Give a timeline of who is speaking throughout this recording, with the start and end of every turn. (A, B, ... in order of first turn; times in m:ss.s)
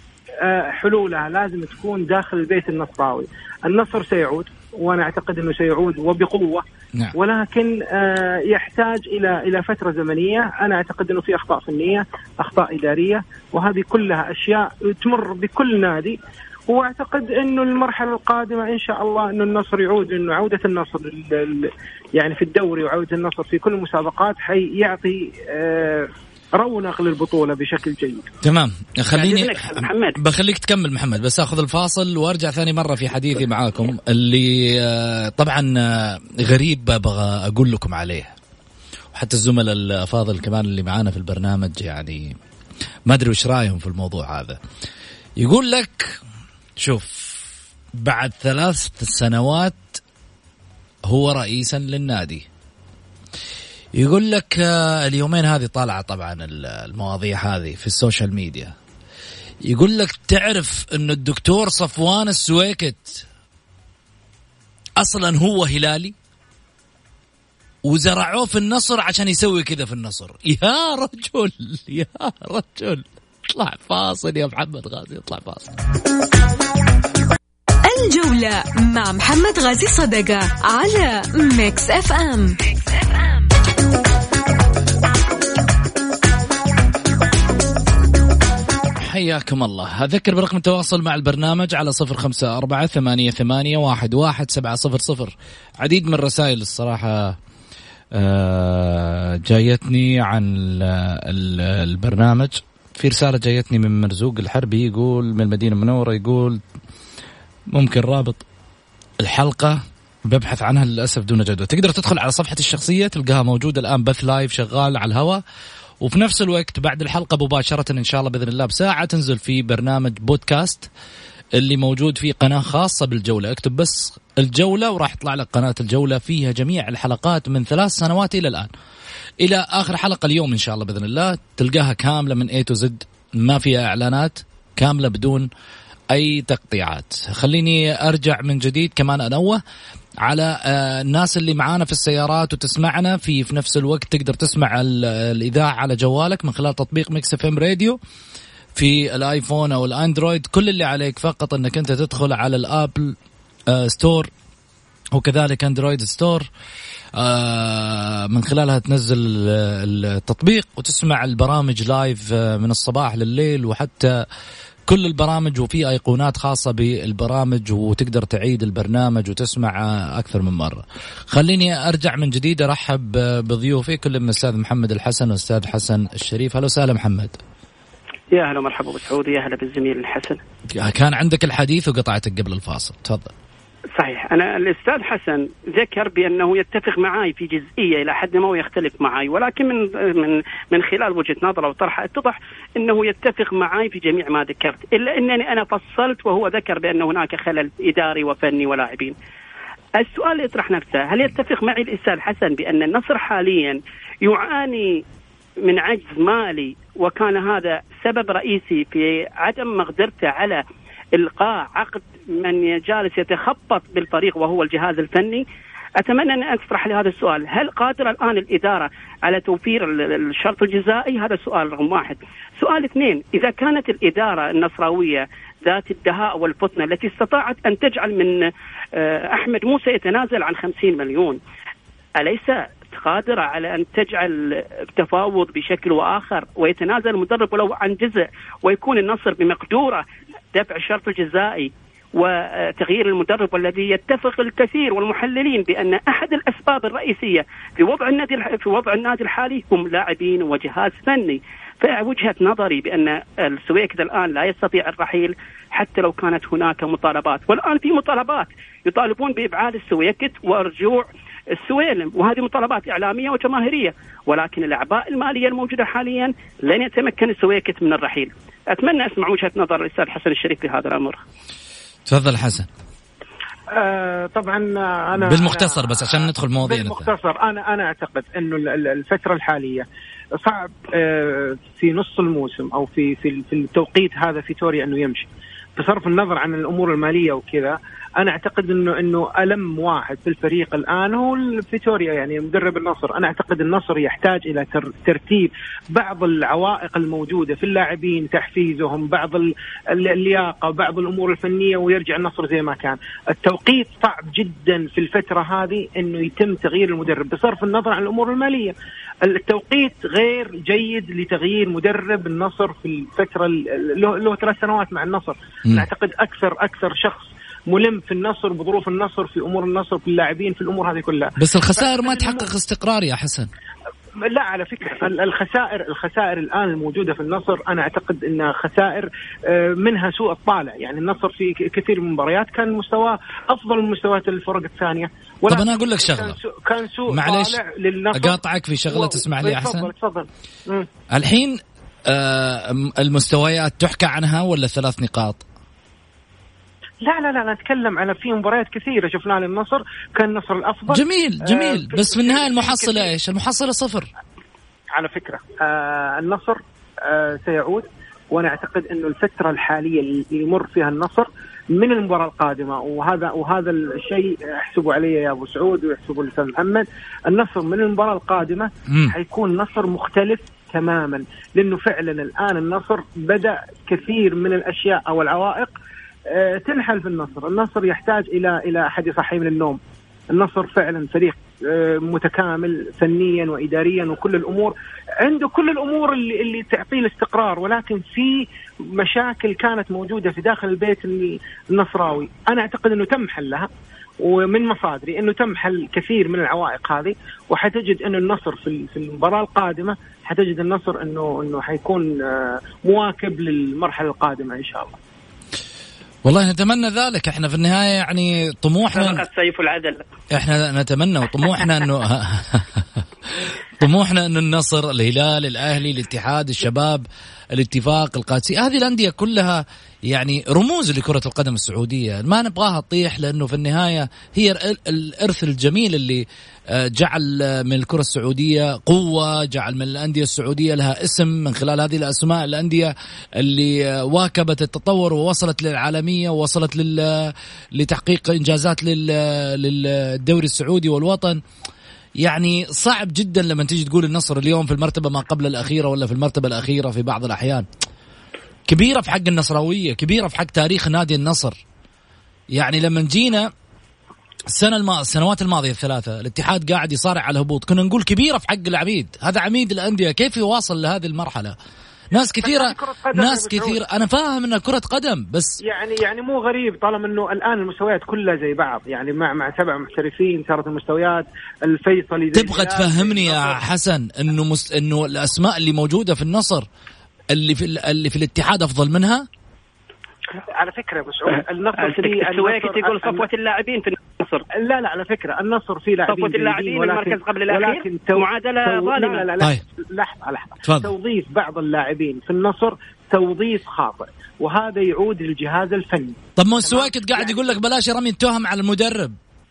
0:00.4-0:06.6 A
0:07.2-0:16.2 A
0:16.7-0:28.3 A
0:28.4-0:38.3 B
0:29.1-0:30.2 C
0:39.1-0:42.4 B
0:43.1-0:44.6 B
0:45.4-0:46.2 B
0:46.8-0:47.4 B
0:48.0-0:50.0 B
0:51.1-0:52.4 B
0:53.9-0:58.7 B
0:59.6-1:03.2 B
1:05.0-1:06.1 B
1:07.8-1:15.7 B
1:17.8-1:22.7 D
1:29.0-1:37.4 B
1:38.1-1:46.6 B
1:47.7-1:48.4 B
1:49.2-1:55.4 B
1:56.0-2:00.9 B
2:01.6-2:08.7 B
2:09.4-2:15.5 B
2:16.1-2:19.6 B
2:20.2-2:28.0 B
2:28.7-2:33.1 B
2:33.7-2:34.3 B
2:35.1-2:36.5 B
2:37.2-2:44.2 B
2:44.8-2:57.4 B
2:58.3-3:00.4 C
3:00.8-3:03.3 B
3:04.0-3:19.1 C
3:20.0-3:25.0 C
3:25.6-3:30.6 C
3:31.2-3:35.4 C
3:36.0-3:51.4 C
3:52.2-4:31.2 C
4:32.1-4:32.7 B
4:33.7-4:39.8 A
4:35.2-4:37.1 B
4:40.4-5:22.4 A
5:21.4-5:23.5 B
5:24.2-5:38.4 A
5:35.5-5:36.4 B
5:37.1-5:37.6 B
5:38.1-5:39.9 B
5:38.9-5:40.9 A
5:41.1-5:45.4 B
5:47.0-5:53.1 A
5:50.9-5:54.1 B
5:54.9-6:15.7 A
6:08.9-6:09.1 B
6:16.3-6:19.8 A
6:20.3-6:33.7 A
6:34.2-6:45.0 A
6:46.2-6:49.2 B
6:48.9-6:50.0 C
6:50.3-7:21.4 B
7:22.2-7:27.6 B
7:28.7-7:31.6 B
7:32.5-7:33.5 B
7:34.5-7:41.5 B
7:42.1-7:45.6 B
7:42.4-7:43.8 A
7:45.6-7:53.6 A
7:52.3-7:56.6 B
7:57.3-7:59.2 B
8:00.5-8:03.2 A
8:01.8-8:04.4 C
8:04.6-8:17.5 A
8:06.1-8:09.2 C
8:10.6-8:10.9 B
8:16.4-8:19.2 B